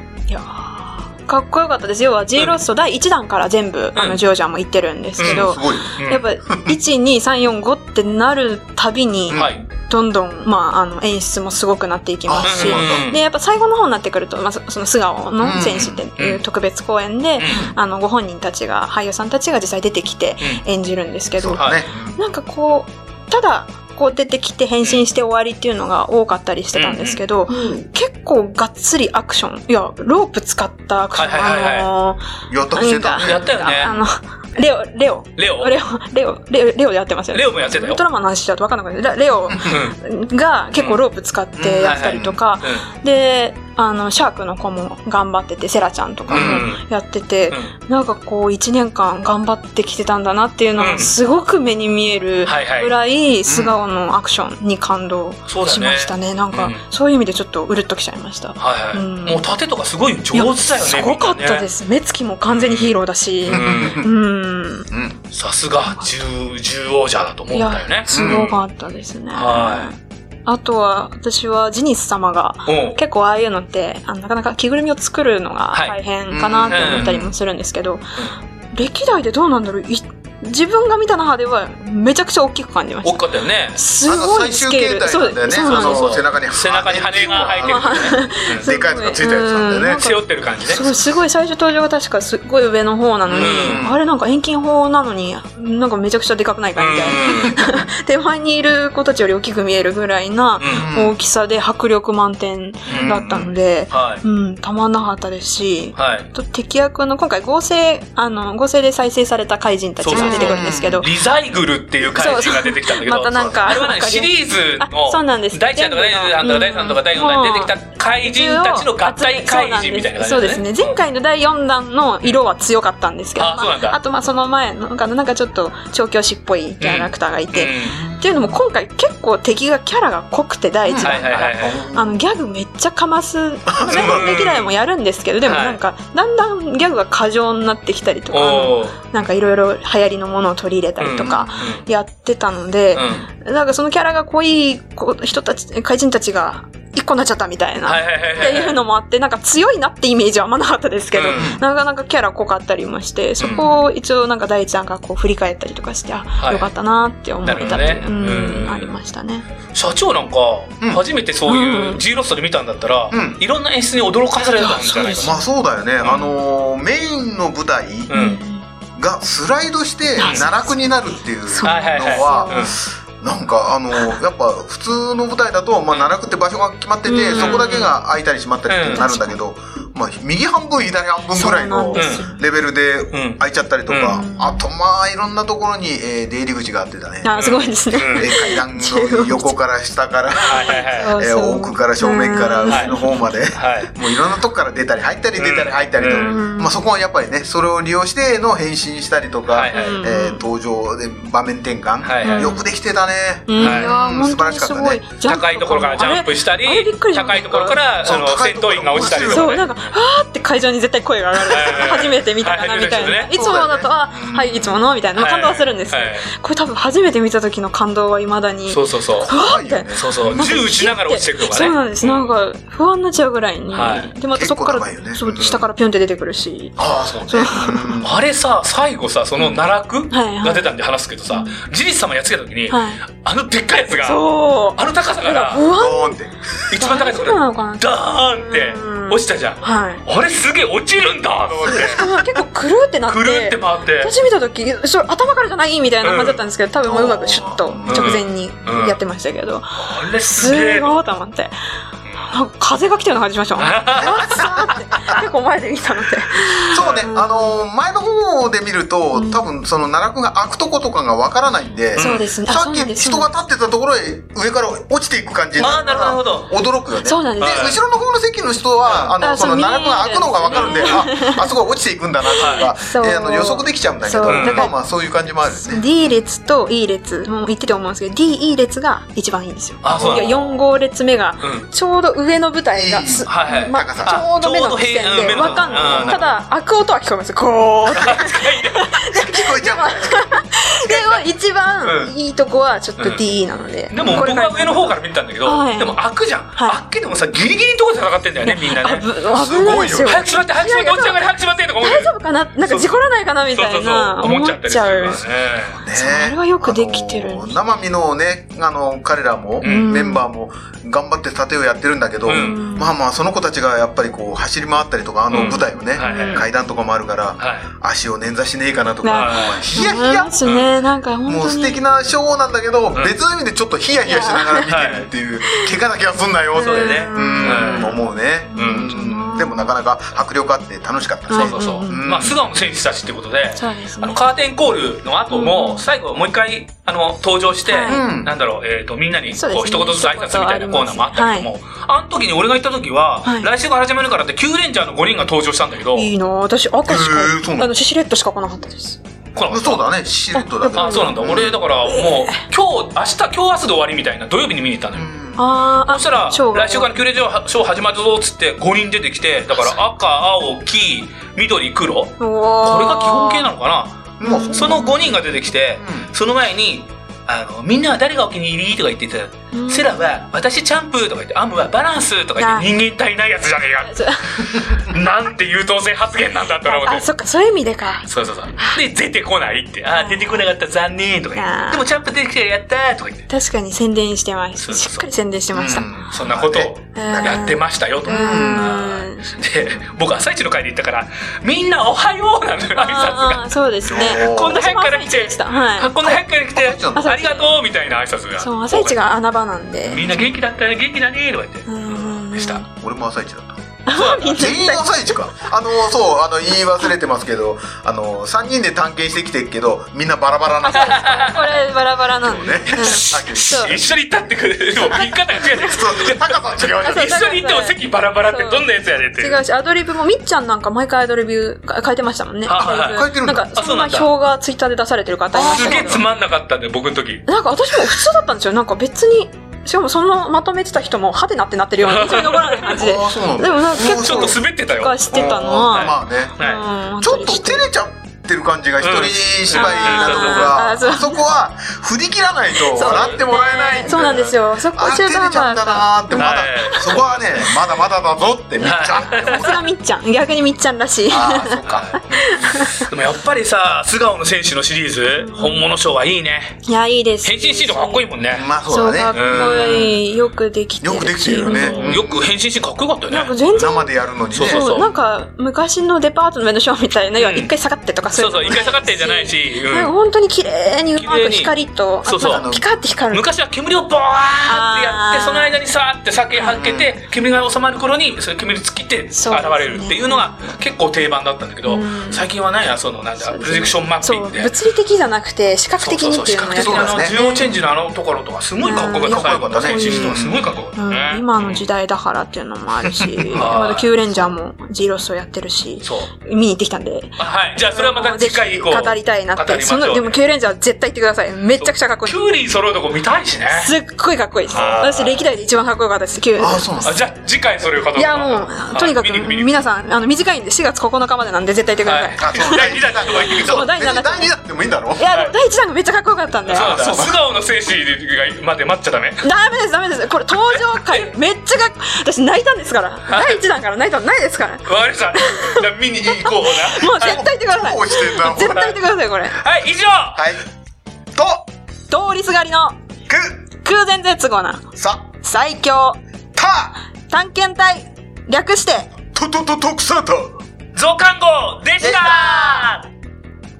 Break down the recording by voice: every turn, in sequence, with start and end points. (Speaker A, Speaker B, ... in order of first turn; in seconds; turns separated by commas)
Speaker A: 0.3-59.5, Speaker B: 4.0-4.2, Speaker B: 5.2-6.2, Speaker C: 5.2-6.0, Speaker C: 9.3-9.6, Speaker B: 9.3-9.6, Speaker C: 12.3-13.1, Speaker B: 12.4-13.2, Speaker C: 15.4-16.0, Speaker B: 16.2-16.4, Speaker B: 17.4-17.7, Speaker C: 17.5-17.7, Speaker C: 21.4-22.2, Speaker B: 21.6-21.8, Speaker B: 26.7-27.2, Speaker C: 27.5-27.9, Speaker B: 31.1-31.9, Speaker C: 32.5-33.5, Speaker B: 33.2-34.0, Speaker B: 35.4-35.7, Speaker B: 37.3-38.0, Speaker B: 39.6-40.0, Speaker B: 40.7-41.0, Speaker C: 41.5-42.4, Speaker B: 41.8-42.9, Speaker C: 46.3-46.7, Speaker B: 46.3-46.8, Speaker B: 50.8-51.1, Speaker B: 52.4-52.9, Speaker C: 53.5-53.8, Speaker B: 55.5-56.8, Speaker B: 58.6-61.7, Speaker A: 60.3-64.9, Speaker B: 62.5-62.9, Speaker B: 63.5-64.0, Speaker C: 63.5-64.1, Speaker C: 64.9-65.2, Speaker B: 65.3-68.6, Speaker A: 67.5-78.1, Speaker C: 68.1-68.5, Speaker B: 69.3-69.9, Speaker B: 72.7-73.0, Speaker C: 76.3-77.3, Speaker B: 76.7-77.2, Speaker A: 78.7-86.2, Speaker B: 83.0-83.8, Speaker C: 84.0-90.1, Speaker B: 85.5-88.7, Speaker A: 87.6-111.1, Speaker B: 89.8-91.0, Speaker C: 93.3-94.0, Speaker B: 93.3-93.8, Speaker B: 96.8-97.6, Speaker B: 100.6-100.9, Speaker C: 100.7-101.2, Speaker B: 102.8-103.2, Speaker C: 102.9-103.5, Speaker B: 103.9-104.2, Speaker B: 106.0-106.3, Speaker B: 110.0-121.0, Speaker C: 110.1-111.0, Speaker A: 112.1-159.4, Speaker B: 123.4-124.0, Speaker B: 126.8-128.0, Speaker C: 127.9-128.6, Speaker C: 130.9-132.2, Speaker B: 131.0-131.8, Speaker C: 133.7-134.5, Speaker B: 133.9-134.7, Speaker B: 135.4-135.8, Speaker B: 138.3-139.0, Speaker B: 141.0-141.8, Speaker C: 141.2-141.7, Speaker B: 142.9-143.3, Speaker B: 147.8-148.8, Speaker B: 151.1-151.6, Speaker C: 151.3-151.6, Speaker B: 153.4-153.8, Speaker B: 156.4-156.7, Speaker B: 157.4-158.9, Speaker B: 159.7-165.4, Speaker A: 161.5-162.0, Speaker C: 163.1-163.4, Speaker A: 164.4-165.4, Speaker C: 165.2-168.1, Speaker B: 166.0-166.3, Speaker B: 168.1-168.4, Speaker A: 168.1-168.7, Speaker C: 168.9-187.3, Speaker B: 170.2-170.5, Speaker A: 170.2-170.8, Speaker A: 171.4-172.8, Speaker B: 171.6-172.7, Speaker B: 175.9-176.2, Speaker A: 177.1-177.8, Speaker B: 177.3-177.9, Speaker B: 178.7-179.0, Speaker A: 178.9-179.4, Speaker A: 181.3-182.4, Speaker B: 181.9-182.2, Speaker B: 183.1-184.2, Speaker A: 184.1-184.7, Speaker A: 187.2-189.6, Speaker B: 187.3-188.3, Speaker C: 187.9-205.0, Speaker A: 190.4-193.3, Speaker B: 190.4-191.1, Speaker B: 192.7-192.9, Speaker B: 193.5-193.9, Speaker B: 195.4-196.4, Speaker A: 196.1-196.8, Speaker B: 199.5-200.0, Speaker A: 199.7-200.4, Speaker B: 202.0-202.6, Speaker A: 202.2-202.7, Speaker A: 203.5-207.8, Speaker B: 203.6-203.9, Speaker B: 205.2-209.9, Speaker C: 208.0-209.6, Speaker A: 209.0-228.0, Speaker B: 211.5-213.3, Speaker C: 213.3-214.8, Speaker B: 215.1-216.3, Speaker B: 218.7-219.3, Speaker C: 219.2-220.6, Speaker B: 219.9-222.3, Speaker B: 223.7-224.1, Speaker C: 224.3-225.6, Speaker C: 226.8-228.2, Speaker B: 228.0-234.2, Speaker A: 230.1-230.7, Speaker A: 231.3-231.6, Speaker A: 232.7-233.0, Speaker A: 233.9-236.2, Speaker B: 234.8-235.7, Speaker C: 235.7-236.4, Speaker B: 236.7-242.4, Speaker A: 236.7-240.0, Speaker C: 241.6-242.0, Speaker A: 241.7-251.5, Speaker B: 243.1-244.1, Speaker B: 246.0-246.4, Speaker C: 246.8-248.2, Speaker B: 247.8-249.0, Speaker B: 249.8-251.0, Speaker A: 252.2-257.6, Speaker B: 253.6-254.3, Speaker C: 254.0-255.2, Speaker C: 256.7-275.8, Speaker B: 256.8-257.1, Speaker A: 259.1-259.4, Speaker B: 261.9-262.2, Speaker A: 261.9-263.3, Speaker B: 265.6-266.5, Speaker A: 267.0-267.8, Speaker B: 267.4-267.8, Speaker B: 268.8-269.1, Speaker A: 269.2-271.5, Speaker B: 270.5-271.0, Speaker A: 272.3-274.7, Speaker B: 272.4-272.7, Speaker B: 274.3-274.7, Speaker A: 275.4-296.0, Speaker B: 279.8-280.6, Speaker C: 279.8-280.3, Speaker B: 281.4-281.7, Speaker C: 282.7-284.2, Speaker B: 283.2-286.3, Speaker C: 285.3-286.2, Speaker B: 287.9-288.9, Speaker C: 289.1-290.3, Speaker B: 290.8-291.2, Speaker B: 291.8-292.1, Speaker B: 293.0-293.2, Speaker B: 293.9-302.1, Speaker C: 294.0-294.3, Speaker A: 298.4-305.2, Speaker C: 299.3-300.2, Speaker B: 302.6-303.0, Speaker B: 303.5-305.8, Speaker C: 305.7-320.4, Speaker A: 305.9-307.6, Speaker B: 309.6-309.9, Speaker A: 309.6-310.2, Speaker B: 312.2-312.6, Speaker A: 312.2-312.9, Speaker B: 315.3-316.4, Speaker A: 315.4-316.4, Speaker B: 317.4-317.7, Speaker A: 319.0-321.8, Speaker B: 319.1-319.6, Speaker C: 321.2-332.4, Speaker B: 322.9-323.2, Speaker A: 324.1-324.7, Speaker B: 324.7-325.1, Speaker A: 326.6-329.7, Speaker B: 326.6-328.0, Speaker B: 328.5-328.9, Speaker A: 331.3-332.1, Speaker B: 331.3-346.1, Speaker A: 333.5-334.2, Speaker A: 335.3-335.9, Speaker A: 337.6-338.0, Speaker C: 337.9-338.3, Speaker A: 339.3-341.5, Speaker A: 343.2-343.5, Speaker A: 345.9-349.0, Speaker C: 346.9-347.7, Speaker B: 349.3-349.9, Speaker C: 349.5-351.6, Speaker A: 350.3-352.4, Speaker B: 350.7-355.1, Speaker C: 354.9-355.4, Speaker A: 355.4-356.9, Speaker B: 355.8-377.1, Speaker C: 359.5-359.8, Speaker A: 362.2-363.5, Speaker C: 364.2-365.1, Speaker A: 364.2-365.0, Speaker C: 365.8-366.1, Speaker A: 369.5-370.1, Speaker A: 372.4-372.7, Speaker A: 373.8-374.4, Speaker A: 376.6-378.1, Speaker B: 378.1-383.3, Speaker A: 379.9-380.5, Speaker A: 381.3-381.9, Speaker A: 383.3-385.9, Speaker B: 384.6-385.1, Speaker C: 385.5-387.5, Speaker B: 386.1-399.0, Speaker A: 386.9-389.5, Speaker C: 388.0-388.8, Speaker A: 392.8-396.1, Speaker C: 393.8-394.6, Speaker C: 396.0-397.1, Speaker A: 396.9-397.6, Speaker A: 398.4-400.3, Speaker B: 399.9-402.6, Speaker A: 401.6-402.7, Speaker C: 402.8-403.6, Speaker A: 403.9-405.1, Speaker B: 403.9-404.4, Speaker C: 404.2-411.6, Speaker A: 410.6-413.8, Speaker B: 410.7-411.6, Speaker C: 412.2-413.8, Speaker B: 412.7-419.4, Speaker A: 414.8-415.8, Speaker C: 415.5-417.1, Speaker A: 416.8-426.1, Speaker B: 422.4-424.1, Speaker C: 422.6-423.5, Speaker B: 425.3-427.2, Speaker C: 425.5-425.8, Speaker A: 427.3-437.7, Speaker B: 431.8-432.8, Speaker C: 432.7-434.4, Speaker B: 433.7-436.6, Speaker C: 435.1-436.4, Speaker C: 437.0-449.6, Speaker B: 438.8-440.7, Speaker A: 439.5-441.2, Speaker A: 442.6-446.9, Speaker B: 442.8-443.2, Speaker B: 443.9-444.3, Speaker B: 446.1-447.6, Speaker B: 448.6-449.5, Speaker A: 449.2-452.8, Speaker C: 451.1-452.4, Speaker B: 451.6-456.6, Speaker A: 455.1-455.6, Speaker A: 456.6-458.1, Speaker B: 457.2-458.5, Speaker C: 458.3-460.0, Speaker A: 458.6-462.0, Speaker B: 459.1-459.9, Speaker C: 460.8-462.3, Speaker B: 461.4-463.4, Speaker A: 463.1-473.3, Speaker C: 463.5-464.6, Speaker B: 464.3-464.9, Speaker B: 467.2-467.5, Speaker B: 468.1-469.9, Speaker B: 470.9-471.5, Speaker B: 472.0-472.4, Speaker C: 472.2-472.6, Speaker B: 473.1-484.5, Speaker A: 474.4-475.6, Speaker A: 476.3-476.6, Speaker C: 476.5-476.9, Speaker A: 479.1-480.3, Speaker A: 481.6-482.3, Speaker A: 483.2-487.6, Speaker B: 485.8-491.7, Speaker C: 486.5-487.2, Speaker A: 488.6-490.2, Speaker C: 489.0-490.4, Speaker A: 490.7-502.3, Speaker B: 493.3-493.9, Speaker B: 495.8-496.1, Speaker B: 497.2-500.2, Speaker B: 501.6-503.7, Speaker A: 503.5-506.9, Speaker B: 504.5-505.2, Speaker C: 506.4-507.0, Speaker B: 506.8-509.6, Speaker A: 507.9-514.4, Speaker B: 511.8-513.7, Speaker C: 512.2-515.0, Speaker A: 515.0-516.8, Speaker B: 516.5-519.2, Speaker C: 516.5-517.2, Speaker A: 519.2-529.4, Speaker B: 520.3-521.1, Speaker B: 523.1-523.4, Speaker B: 524.6-527.2, Speaker C: 526.8-528.6, Speaker B: 528.3-528.8, Speaker B: 529.4-530.2, Speaker C: 530.1-530.4, Speaker C: 531.1-531.5, Speaker A: 531.9-532.8, Speaker C: 533.1-533.3, Speaker A: 533.6-534.6, Speaker C: 534.8-535.0, Speaker A: 535.2-536.0, Speaker C: 536.3-536.8, Speaker A: 537.1-538.9, Speaker C: 539.1-540.4, Speaker B: 540.7-542.9, Speaker C: 541.8-542.6